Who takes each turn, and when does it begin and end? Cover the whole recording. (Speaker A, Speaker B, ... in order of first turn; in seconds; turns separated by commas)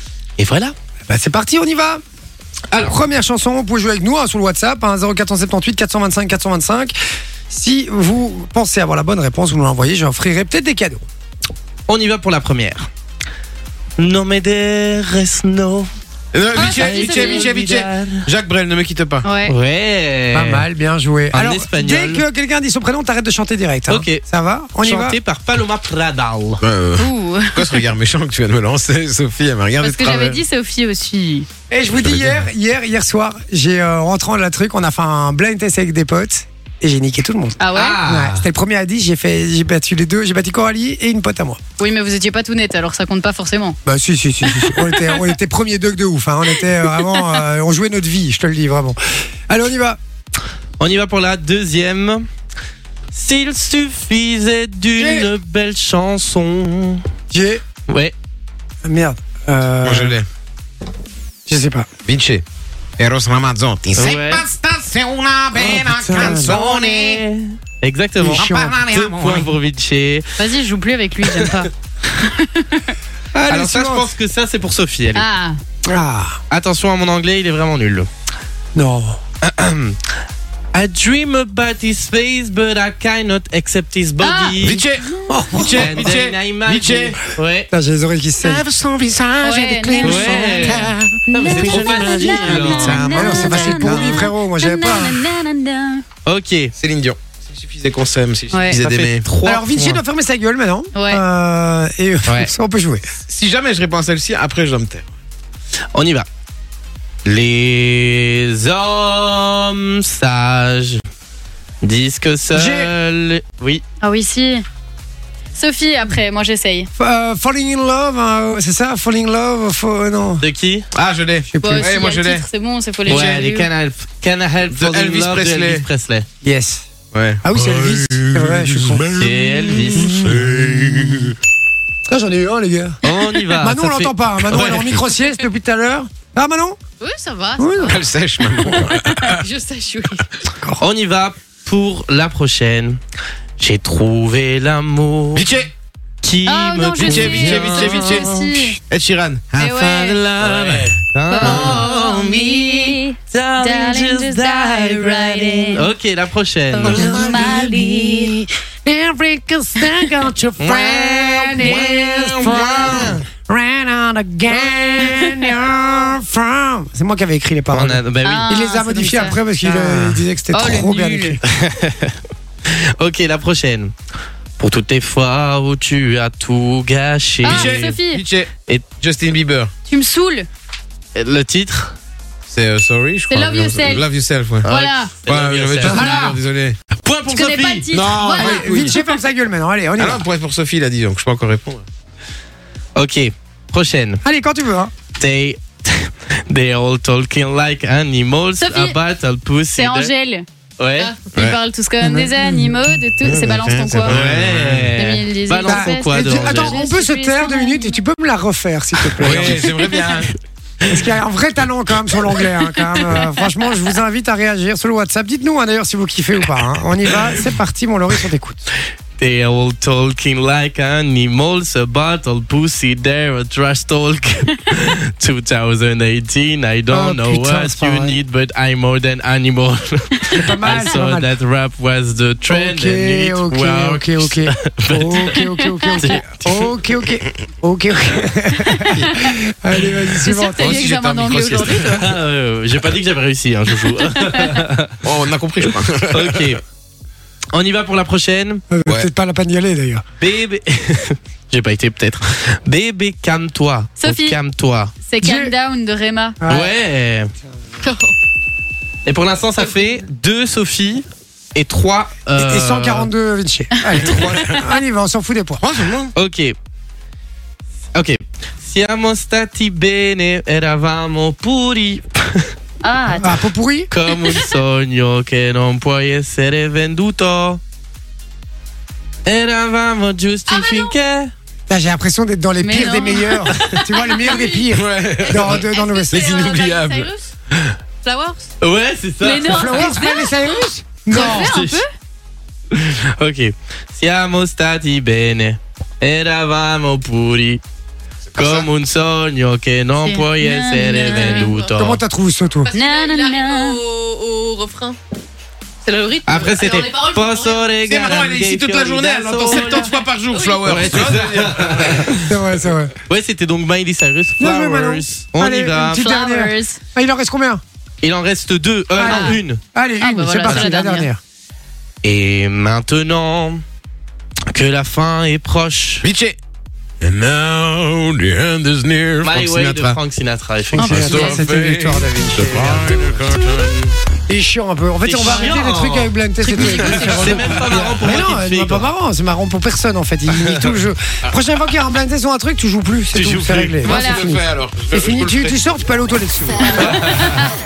Speaker A: 0.4-0.7, Speaker B: 1.1-2.0, Speaker B: 2.8-6.9, Speaker B: 7.5-11.1, Speaker A: 11.9-12.9, Speaker A: 14.0-15.9, Speaker C: 16.3-19.2, Speaker D: 16.6-17.6, Speaker A: 16.6-18.3, Speaker D: 19.2-19.6, Speaker A: 19.4-20.6, Speaker B: 20.3-25.2, Speaker A: 21.3-22.2, Speaker A: 23.9-24.2, Speaker A: 24.8-26.6, Speaker C: 26.6-30.4, Speaker D: 27.0-27.8, Speaker D: 29.8-31.5, Speaker B: 31.7-41.6, Speaker C: 31.9-32.4, Speaker D: 37.6-38.0, Speaker A: 37.7-38.4, Speaker D: 41.8-43.8, Speaker B: 43.9-49.0, Speaker D: 44.5-45.3, Speaker D: 46.9-47.2, Speaker B: 49.5-50.0, Speaker A: 50.8-52.2, Speaker A: 53.1-57.0, Speaker B: 55.0-55.3, Speaker B: 57.3-57.6, Speaker A: 57.9-58.1, Speaker B: 58.9-60.2, Speaker C: 59.8-60.3, Speaker B: 61.5-61.9, Speaker C: 62.0-62.4, Speaker C: 63.0-67.2, Speaker A: 64.0-64.5, Speaker B: 65.6-66.6, Speaker A: 66.2-70.3, Speaker B: 68.2-68.8, Speaker C: 68.3-69.5, Speaker D: 70.4-73.0, Speaker A: 71.2-71.5, Speaker B: 73.3-74.1, Speaker A: 73.5-75.3, Speaker D: 75.2-75.6, Speaker B: 75.9-76.4, Speaker A: 76.5-78.1, Speaker B: 78.8-79.2, Speaker A: 79.4-80.0, Speaker A: 80.7-84.8, Speaker D: 84.2-84.5, Speaker C: 84.6-87.2, Speaker B: 85.3-86.2, Speaker A: 85.7-87.7, Speaker B: 87.7-88.6, Speaker C: 88.4-94.3, Speaker D: 89.4-96.0, Speaker A: 90.0-93.5, Speaker B: 92.9-95.3, Speaker A: 96.2-96.7, Speaker C: 96.8-99.2, Speaker D: 98.5-98.8, Speaker A: 98.7-100.0, Speaker B: 99.5-103.0, Speaker D: 100.9-101.2, Speaker C: 103.3-105.1, Speaker A: 105.9-106.3, Speaker A: 107.2-111.0, Speaker A: 111.8-113.8, Speaker B: 112.5-112.9, Speaker D: 114.0-114.7, Speaker D: 115.6-116.9, Speaker B: 117.0-120.5, Speaker A: 120.4-120.9, Speaker C: 120.9-122.5, Speaker B: 121.5-122.0, Speaker D: 121.6-123.7, Speaker C: 123.0-123.5, Speaker A: 123.0-126.3, Speaker C: 124.7-125.9, Speaker B: 126.4-126.9, Speaker C: 127.1-131.3, Speaker B: 127.4-131.1, Speaker A: 129.1-130.4, Speaker B: 132.1-133.0, Speaker A: 133.0-135.1, Speaker B: 133.6-136.8, Speaker D: 137.0-138.0, Speaker B: 137.6-138.0, Speaker C: 137.8-139.4, Speaker D: 138.6-140.3, Speaker A: 140.8-143.0, Speaker A: 143.6-145.5, Speaker C: 145.3-145.7, Speaker A: 146.2-148.6, Speaker D: 146.5-148.8, Speaker C: 147.0-152.4, Speaker D: 149.6-150.3, Speaker A: 150.0-158.3, Speaker D: 151.3-155.9, Speaker D: 156.7-158.5, Speaker C: 156.8-158.2, Speaker B: 156.9-157.6, Speaker B: 158.8-171.4, Speaker A: 160.6-163.2, Speaker C: 161.6-163.2, Speaker A: 167.7-168.6, Speaker D: 168.2-169.4, Speaker A: 169.6-170.2, Speaker D: 170.5-171.4, Speaker A: 171.4-172.2, Speaker A: 172.7-173.9, Speaker A: 174.6-178.0, Speaker D: 177.4-178.2, Speaker C: 177.4-179.7, Speaker D: 179.9-180.5, Speaker A: 181.2-181.9, Speaker C: 182.5-184.7, Speaker D: 183.3-184.1, Speaker A: 184.6-186.2, Speaker D: 184.7-185.2, Speaker C: 185.3-186.8, Speaker D: 185.8-186.3, Speaker B: 185.9-186.4, Speaker A: 187.0-187.9, Speaker D: 187.2-189.2, Speaker C: 187.9-189.0, Speaker B: 188.4-190.2, Speaker C: 190.0-191.8, Speaker A: 193.0-194.2, Speaker B: 194.2-194.9, Speaker A: 195.2-200.1, Speaker D: 198.6-199.0, Speaker D: 199.8-200.5, Speaker A: 200.8-201.1, Speaker D: 201.0-204.2, Speaker B: 202.0-202.5, Speaker C: 203.2-205.0, Speaker A: 204.1-206.8, Speaker D: 205.0-208.0, Speaker B: 205.7-209.7, Speaker C: 209.2-210.3, Speaker A: 209.2-209.5, Speaker B: 210.8-218.6, Speaker D: 212.8-213.5, Speaker A: 219.2-235.4, Speaker B: 226.9-228.2, Speaker B: 230.3-231.3, Speaker B: 232.5-240.9, Speaker D: 235.4-236.2, Speaker A: 236.0-236.7, Speaker D: 238.7-239.3, Speaker D: 240.2-242.2, Speaker C: 240.5-242.1, Speaker A: 241.6-245.1, Speaker D: 243.8-244.7, Speaker C: 245.0-246.6, Speaker A: 245.6-246.6, Speaker A: 247.5-248.6, Speaker B: 248.7-250.0, Speaker A: 250.2-254.9, Speaker D: 254.0-254.4, Speaker D: 255.0-256.4, Speaker B: 255.2-255.5, Speaker B: 256.4-256.7, Speaker A: 256.5-257.3, Speaker A: 259.1-263.1, Speaker B: 262.4-265.6, Speaker D: 263.9-264.6, Speaker C: 264.1-264.4, Speaker C: 265.6-266.1, Speaker A: 266.1-266.6, Speaker A: 267.9-272.5, Speaker D: 272.8-273.4, Speaker B: 273.2-273.9, Speaker A: 273.9-277.6, Speaker D: 274.2-274.6, Speaker A: 279.2-281.3, Speaker D: 280.5-280.9, Speaker B: 281.7-286.4, Speaker D: 282.6-284.7, Speaker C: 284.7-287.7, Speaker D: 285.2-287.3, Speaker D: 288.0-288.5, Speaker A: 288.6-290.1, Speaker D: 289.2-291.9, Speaker B: 289.5-291.5, Speaker A: 291.1-291.8, Speaker A: 292.7-297.6, Speaker C: 298.3-298.7, Speaker A: 298.4-302.0, Speaker D: 300.0-301.7, Speaker B: 301.8-302.7, Speaker D: 302.7-303.9, Speaker E: 302.7-305.0, Speaker D: 305.9-307.7, Speaker E: 306.2-306.7, Speaker A: 306.2-309.9, Speaker C: 307.8-312.3, Speaker D: 309.4-311.1, Speaker A: 310.6-312.3, Speaker B: 312.1-312.9, Speaker A: 313.1-316.1, Speaker B: 314.4-317.6, Speaker D: 315.9-316.8, Speaker A: 318.0-319.6, Speaker B: 319.0-321.2, Speaker D: 319.0-319.4, Speaker D: 320.0-321.1, Speaker A: 322.0-323.6, Speaker A: 324.5-326.1, Speaker C: 326.0-326.4, Speaker C: 327.0-330.0, Speaker A: 329.2-331.4, Speaker C: 330.8-333.7, Speaker B: 330.8-333.1, Speaker D: 330.8-331.4, Speaker A: 332.6-333.9, Speaker B: 334.3-347.0, Speaker A: 335.0-338.9, Speaker D: 335.2-335.5, Speaker D: 336.5-337.7, Speaker A: 340.3-340.7, Speaker A: 343.1-343.9, Speaker D: 343.8-344.3, Speaker C: 343.8-345.6, Speaker D: 346.8-347.5